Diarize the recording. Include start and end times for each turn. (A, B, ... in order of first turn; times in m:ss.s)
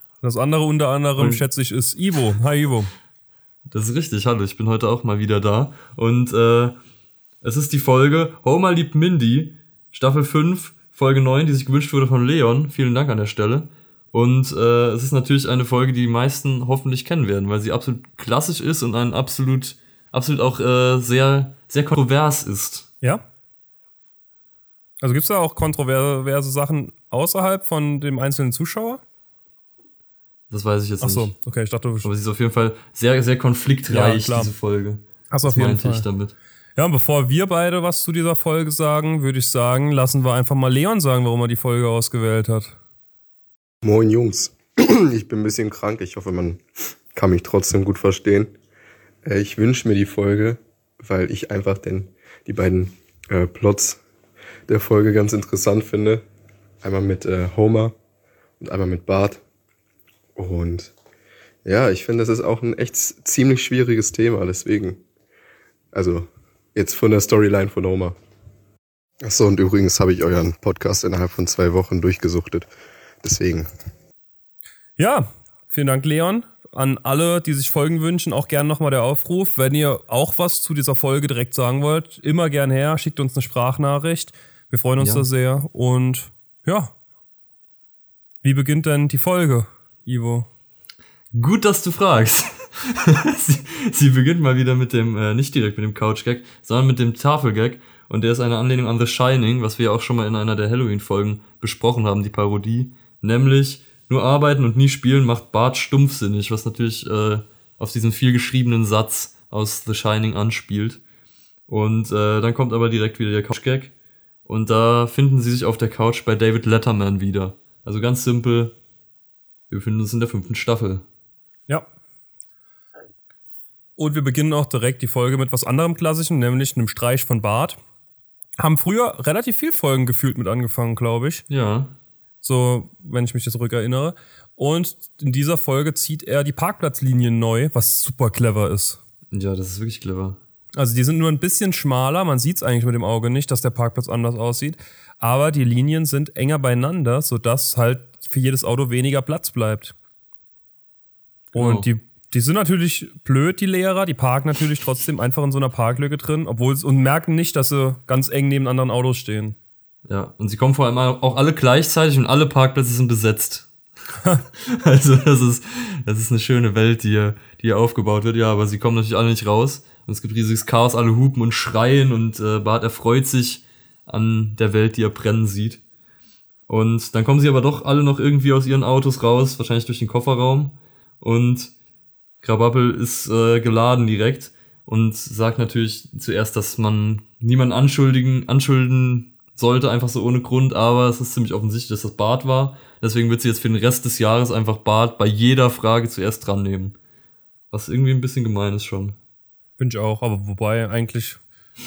0:00.2-0:02.9 A
0:01.2-0:01.4 B
0:03.7-0:06.8 B
0:07.4-0:22.9 B
0:25.0-0:29.0 A
0:30.5-0:31.3 B
0:31.0-0:32.1 A
0:32.0-0:36.4 B
0:33.9-0:34.5 A
0:35.3-0:36.1 A
0:36.8-0:42.8 A
0:43.8-0:46.6 C
0:47.1-0:48.5 C
0:49.2-0:54.0 C
0:54.7-0:56.2 C
0:56.8-0:57.9 C
0:58.6-0:59.4 C
1:00.4-1:00.9 C
1:01.6-1:05.0 C
1:05.9-1:08.2 C
1:09.2-1:12.7 C
1:13.2-1:13.7 C
1:15.0-1:26.9 A
1:25.0-1:25.3 B
1:28.4-1:30.5 A
1:31.3-1:51.0 B
1:51.7-1:53.9 B
1:54.5-1:58.8 B
1:59.7-2:01.0 B
2:04.0-2:07.8 A
2:08.6-2:11.5 A
2:11.5-2:12.0 B
2:12.4-2:19.0 A
2:19.3-2:20.4 B
2:20.8-2:29.9 A
2:31.5-2:39.6 A
2:31.6-2:31.9 B
2:40.1-2:43.7 B
2:44.7-2:55.8 B
2:56.7-3:01.7 B
3:02.4-3:17.0 B
3:17.7-3:19.2 B
3:19.8-3:21.4 A